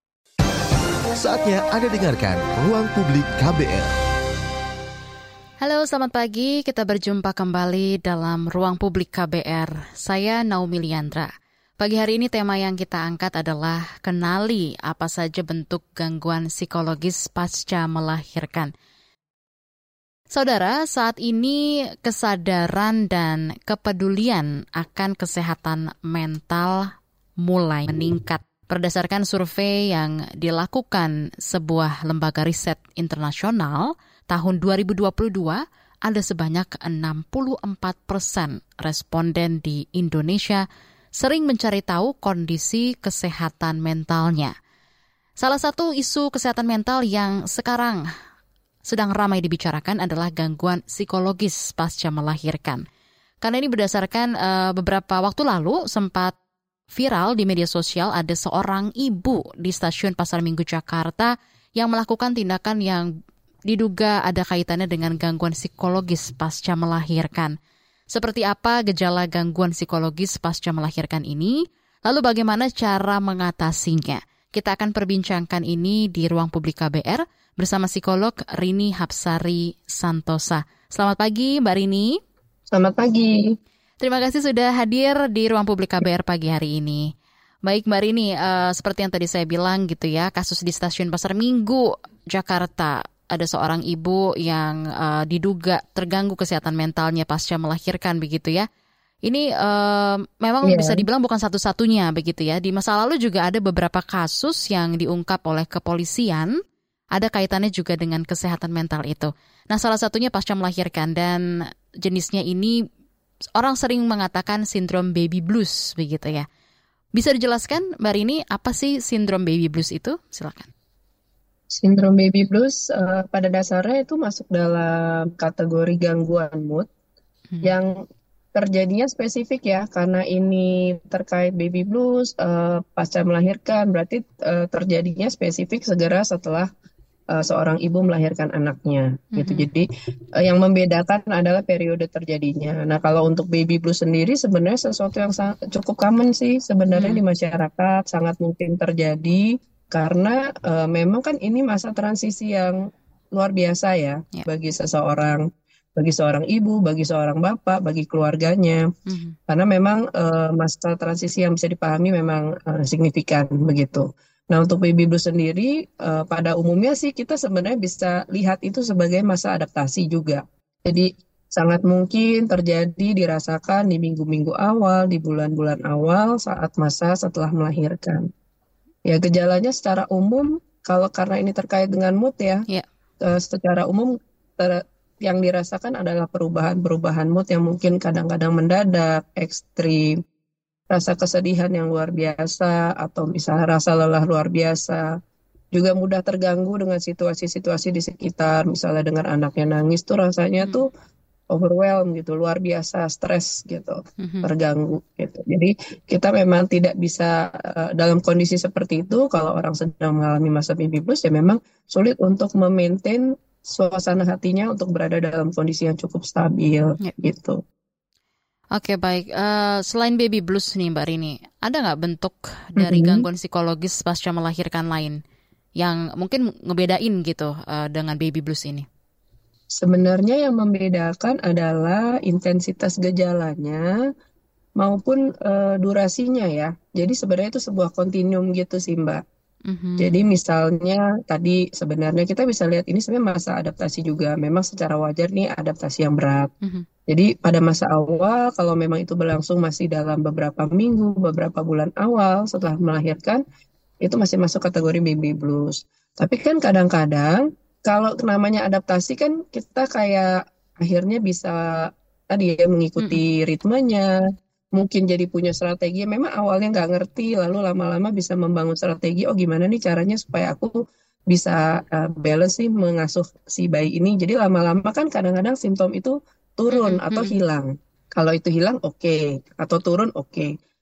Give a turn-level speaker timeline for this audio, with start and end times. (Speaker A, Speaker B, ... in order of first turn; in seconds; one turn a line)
Speaker A: 1.2-3.9
Speaker B: 5.6-18.7
Speaker B: 20.3-40.6
Speaker B: 41.2-44.5
Speaker B: 45.4-48.0
Speaker B: 48.9-52.8
Speaker B: 53.4-56.3
Speaker B: 56.9-63.1
Speaker B: 63.7-67.5
Speaker B: 68.1-71.5
Speaker B: 72.1-82.2
Speaker C: 82.7-83.5
Speaker B: 84.0-87.1
Speaker B: 87.7-98.7
Speaker B: 99.3-106.5
Speaker C: 100.6-101.0
Speaker B: 107.2-111.4
Speaker B: 112.0-112.7
Speaker B: 113.6-116.5
Speaker B: 117.2-120.7
Speaker C: 121.7-126.9
Speaker C: 127.6-128.0
Speaker C: 128.6-136.7
Speaker C: 137.3-139.9
Speaker B: 139.4-139.7
Speaker C: 140.4-152.8
Speaker B: 146.9-147.2
Speaker C: 153.3-155.4
Speaker C: 156.0-158.8
Speaker B: 159.1-159.4
Speaker C: 159.5-178.3
Speaker C: 179.1-182.7
Speaker C: 183.2-190.1
Speaker C: 190.9-195.0
Speaker C: 195.7-200.9
Speaker C: 201.5-217.6
Speaker B: 204.2-204.5
Speaker B: 218.8-225.2
Speaker C: 222.8-223.3
Speaker B: 225.8-228.9
Speaker C: 229.8-233.8
Speaker C: 234.8-239.2
Speaker B: 239.7-240.1
Speaker C: 240.0-246.5
Speaker C: 247.1-253.4
Speaker C: 254.0-261.6
Speaker C: 262.3-264.1
Speaker C: 264.8-270.7
Speaker C: 271.3-280.5
Speaker B: 276.7-277.3